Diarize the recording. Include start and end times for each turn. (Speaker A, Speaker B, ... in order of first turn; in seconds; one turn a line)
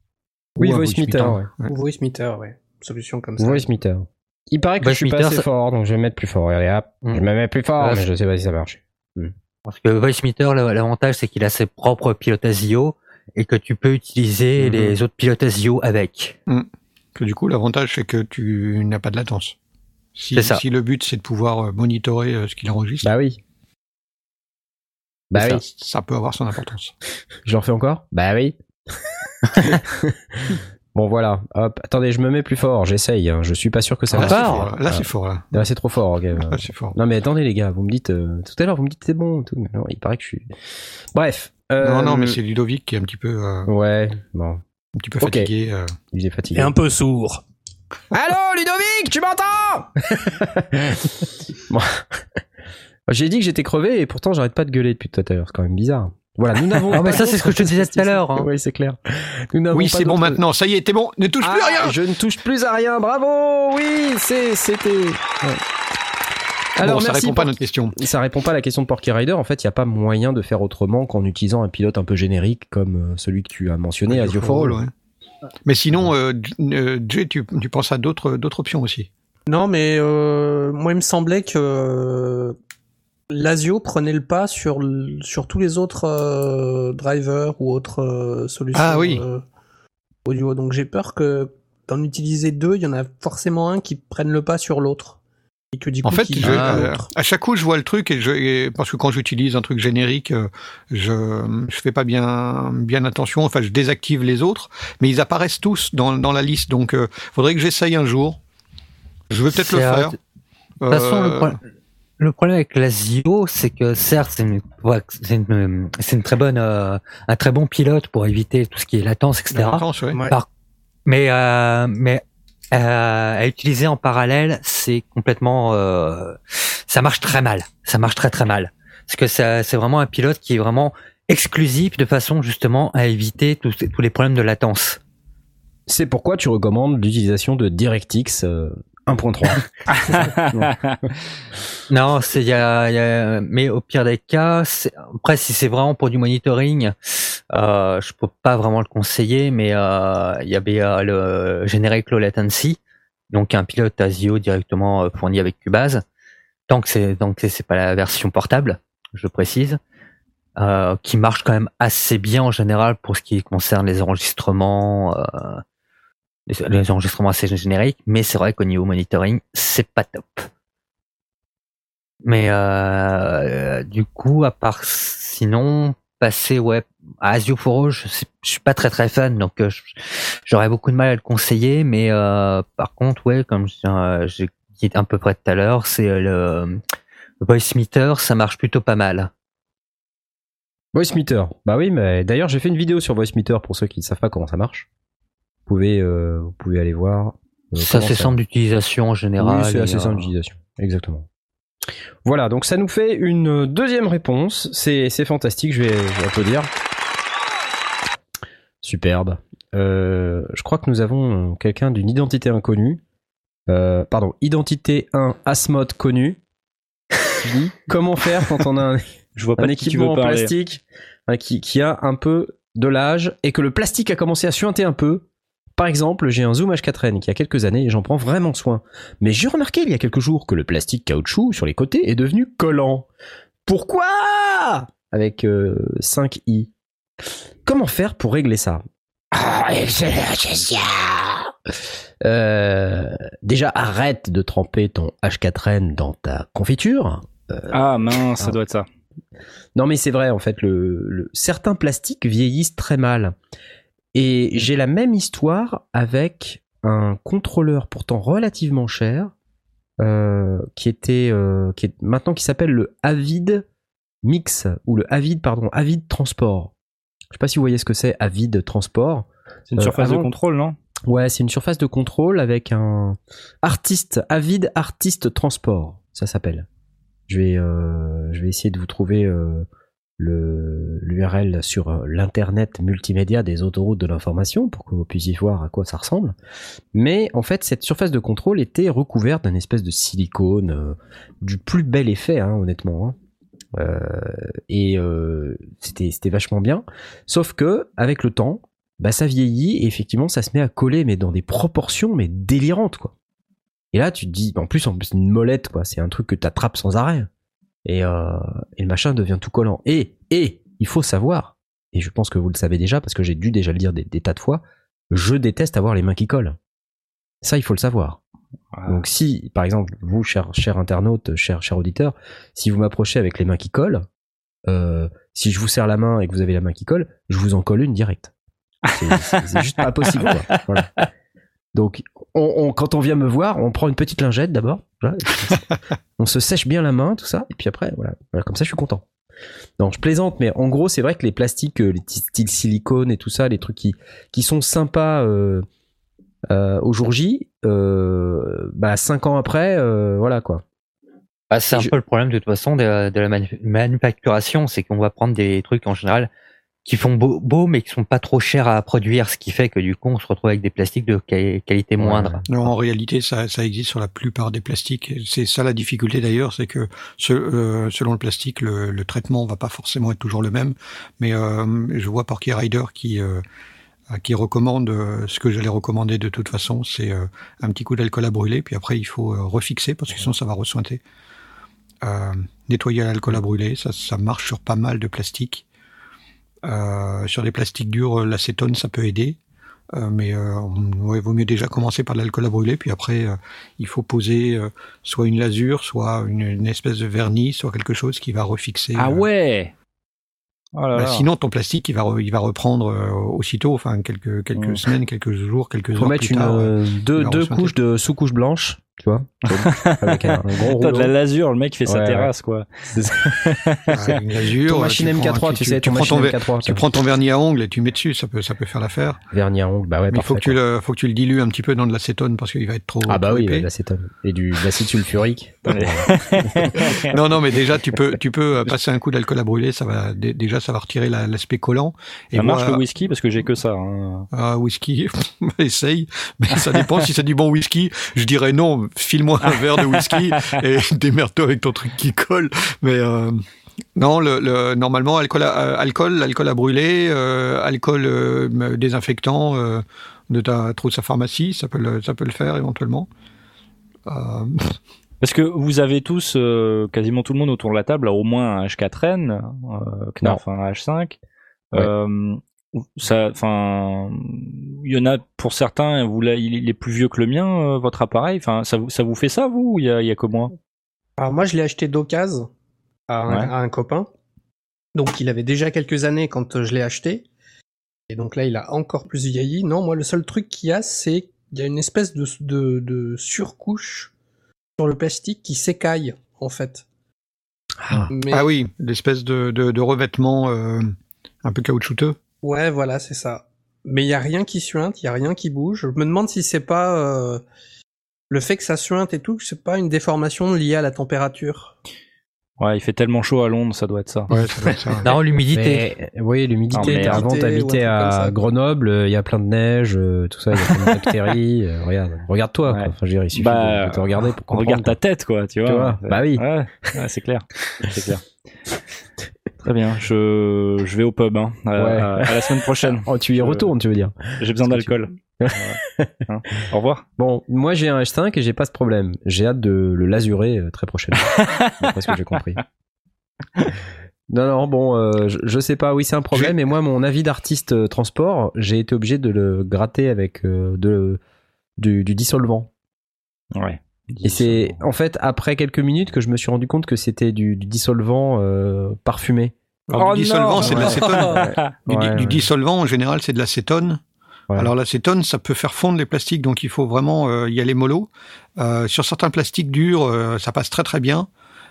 Speaker A: 0.6-1.7
Speaker B: 0.6-1.5
Speaker C: 1.7-3.7
Speaker B: 3.4-9.3
Speaker D: 4.8-5.5
Speaker D: 7.8-8.1
Speaker D: 9.7-16.4
Speaker A: 14.6-14.9
Speaker A: 16.5-19.6
Speaker A: 20.2-23.1
Speaker D: 20.3-20.6
Speaker B: 23.0-23.4
Speaker B: 25.3-25.6
Speaker A: 25.3-26.9
Speaker B: 27.4-28.6
Speaker B: 29.5-40.5
Speaker A: 34.1-35.6
Speaker D: 34.2-34.7
Speaker A: 36.4-37.0
Speaker B: 41.1-42.4
Speaker A: 41.8-43.7
Speaker B: 43.7-44.6
Speaker A: 45.0-45.9
Speaker B: 45.2-45.5
Speaker B: 46.1-46.8
Speaker C: 46.5-47.4
Speaker B: 48.1-52.2
Speaker B: 53.1-60.4
Speaker D: 56.9-58.5
Speaker A: 59.7-62.0
Speaker B: 61.4-65.6
Speaker B: 66.8-74.8
Speaker A: 66.8-68.0
Speaker A: 74.1-74.9
Speaker A: 75.7-79.1
Speaker C: 79.5-82.6
Speaker C: 83.3-89.4
Speaker A: 88.8-89.2
Speaker C: 90.3-95.2
Speaker C: 95.7-97.1
Speaker A: 96.0-108.4
Speaker B: 96.4-96.9
Speaker A: 109.3-110.2
Speaker D: 109.5-110.2
Speaker A: 110.8-111.6
Speaker D: 110.9-111.6
Speaker D: 112.2-120.5
Speaker A: 119.5-120.2
Speaker D: 121.1-135.0
Speaker B: 135.9-140.8
Speaker E: 139.9-141.0
Speaker D: 141.9-146.9
Speaker D: 147.5-152.8
Speaker D: 153.3-156.0
Speaker D: 156.7-159.8
Speaker D: 160.6-165.6
Speaker D: 166.5-170.5
Speaker D: 172.2-186.8
Speaker D: 187.4-189.3
Speaker B: 190.9-194.9
Speaker B: 195.7-198.4
Speaker D: 197.8-200.3
Speaker B: 199.4-201.3
Speaker B: 202.2-206.7
Speaker B: 208.8-213.0
Speaker B: 213.7-216.4
Speaker B: 217.2-233.1
Speaker E: 219.4-220.5
Speaker B: 233.7-236.7
Speaker B: 237.7-247.8
Speaker E: 247.7-248.9
Speaker B: 249.8-253.3
Speaker B: 254.2-259.3
Speaker B: 260.0-263.7
Speaker B: 264.2-266.7
Speaker B: 267.3-270.3
Speaker E: 269.7-270.8
Speaker B: 271.1-276.7
Speaker B: 277.3-279.7
Speaker B: 280.2-286.4
Speaker B: 286.9-293.2
Speaker B: 293.8-303.1
Speaker B: 303.9-307.3
Speaker B: 307.9-316.6
Speaker B: 317.4-318.2
Speaker E: 318.8-319.0
Speaker B: 318.9-324.1
Speaker B: 324.7-328.3
Speaker E: 328.9-329.5
Speaker B: 328.9-330.9
Speaker E: 330.1-330.6
Speaker B: 331.7-335.6
Speaker B: 336.2-339.1
Speaker B: 339.8-345.6
Speaker B: 346.5-350.6
Speaker D: 351.5-356.3
Speaker D: 356.9-362.7
Speaker B: 362.0-362.5
Speaker A: 362.5-373.4
Speaker A: 374.1-381.0
Speaker A: 382.0-385.6
Speaker A: 386.6-389.4
Speaker A: 389.9-399.2
Speaker E: 399.0-399.7
Speaker E: 400.8-401.3
Speaker A: 400.9-407.7
Speaker E: 404.6-404.8
Speaker B: 405.9-411.1
Speaker E: 409.5-414.2
Speaker B: 411.9-412.3
Speaker B: 412.9-413.6
Speaker A: 413.9-419.2
Speaker B: 414.6-416.8
Speaker B: 419.3-420.6
Speaker A: 420.1-423.7
Speaker B: 423.1-426.8
Speaker E: 425.7-427.2
Speaker A: 427.0-432.8
Speaker E: 432.4-434.3
Speaker A: 434.3-443.4
Speaker E: 439.5-440.6
Speaker A: 444.0-453.1
Speaker A: 454.1-454.8
Speaker E: 455.2-461.2
Speaker E: 461.7-470.5
Speaker C: 471.2-472.5
Speaker C: 473.1-474.1
Speaker E: 473.3-473.5
Speaker C: 474.9-477.3
Speaker C: 478.1-484.1
Speaker C: 484.8-486.9
Speaker B: 487.8-488.1
Speaker C: 488.1-488.5
Speaker A: 488.3-492.2
Speaker C: 492.4-497.4
Speaker C: 498.3-501.8
Speaker E: 502.6-504.3
Speaker A: 504.3-505.1
Speaker D: 505.0-505.9
Speaker B: 505.5-515.0
Speaker E: 506.7-507.2
Speaker C: 506.8-508.4
Speaker E: 510.7-511.0
Speaker E: 512.7-518.2
Speaker B: 515.6-517.0
Speaker E: 519.6-523.7
Speaker B: 521.8-524.9
Speaker E: 524.4-527.0
Speaker B: 525.4-526.2
Speaker B: 527.2-532.6
Speaker E: 531.3-531.9
Speaker B: 534.3-541.2
Speaker B: 541.8-542.7
Speaker E: 543.5-544.8
Speaker B: 544.2-549.5
Speaker A: 549.9-554.0
Speaker E: 550.0-551.7
Speaker B: 550.6-552.5
Speaker A: 554.5-561.3